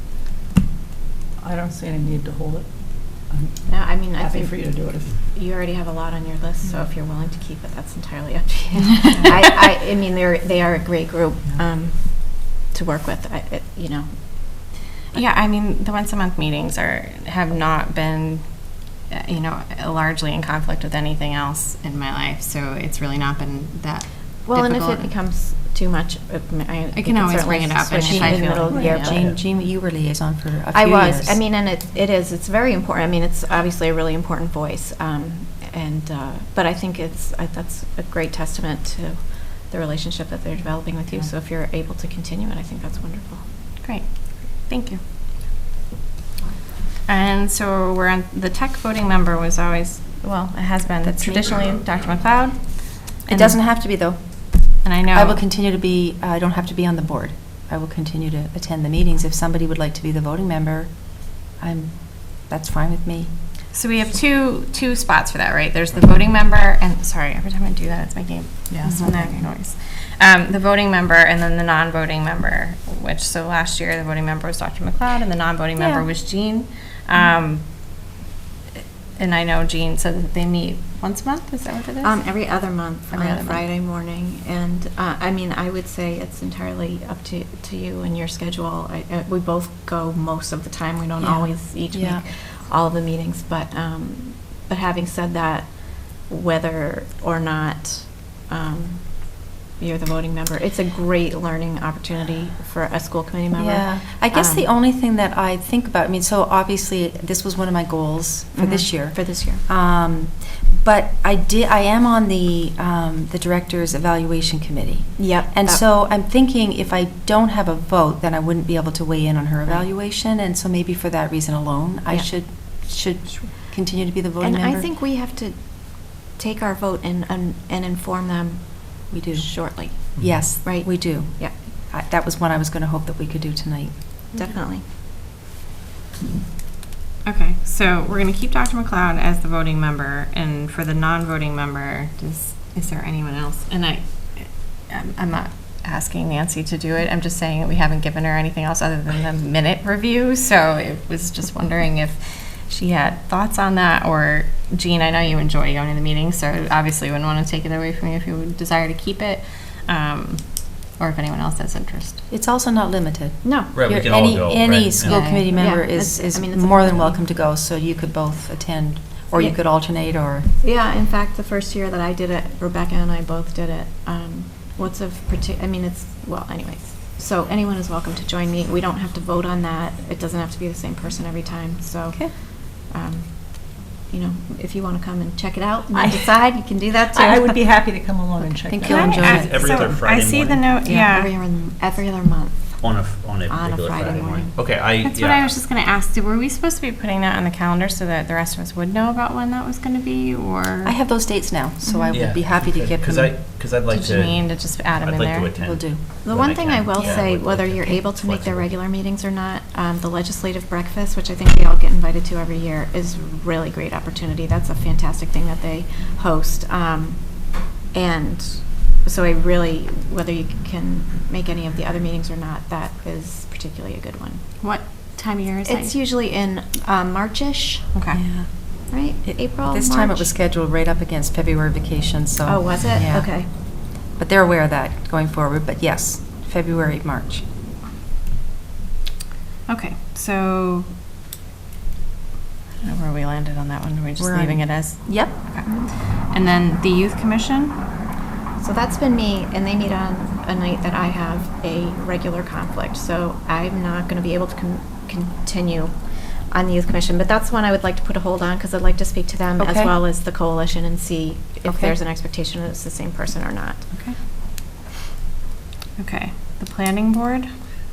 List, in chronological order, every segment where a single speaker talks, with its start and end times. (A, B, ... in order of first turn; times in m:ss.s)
0:01.4-0:02.7 A
0:03.2-0:05.2 A
0:03.7-0:15.2 B
0:15.1-0:25.1 C
0:24.5-0:29.2 B
0:26.9-0:29.2 C
0:28.0-0:31.4 D
0:28.7-0:29.1 A
0:29.1-0:29.4 E
0:30.7-0:43.5 B
0:43.8-0:45.0 C
0:47.1-0:53.6 C
0:51.0-0:51.7 D
0:53.3-1:03.3 D
0:54.8-0:55.4 C
1:03.7-1:17.6 C
1:08.7-1:09.0 A
1:08.8-1:09.2 D
1:15.8-1:16.0 D
1:19.2-1:22.2 C
1:22.0-1:44.7 B
1:23.1-1:23.6 C
1:31.2-1:32.2 D
1:43.5-2:04.9 D
1:48.6-1:49.6 B
1:55.2-1:55.8 B
2:04.4-2:11.6 B
2:09.1-2:14.3 D
2:10.2-2:10.5 E
2:14.3-2:14.8 B
2:17.2-2:42.2 C
2:42.3-2:50.5 D
2:43.4-2:43.8 B
2:43.7-2:45.3 E
2:45.0-2:45.5 C
2:45.5-2:47.2 B
2:50.6-3:07.6 B
3:05.9-3:06.4 A
3:07.0-3:10.0 A
3:08.6-3:09.6 D
3:08.8-3:09.2 B
3:08.8-3:11.3 C
3:09.3-3:10.7 E
3:10.8-3:11.1 D
3:10.9-3:14.7 B
3:12.8-3:15.5 E
3:15.0-3:21.0 C
3:20.8-3:23.4 D
3:21.8-3:22.3 B
3:22.1-3:28.8 E
3:23.9-3:25.6 C
3:25.6-3:26.0 D
3:26.2-3:44.5 B
3:44.6-3:46.0 C
3:45.6-3:47.9 B
3:47.9-3:48.2 C
3:48.1-3:57.5 D
3:48.9-3:50.3 B
3:52.5-3:53.5 B
3:59.7-4:00.9 C
4:02.8-4:07.8 C
4:04.2-4:05.4 D
4:08.6-4:23.9 B
4:19.6-4:19.9 D
4:21.7-4:22.0 D
4:26.0-4:27.5 C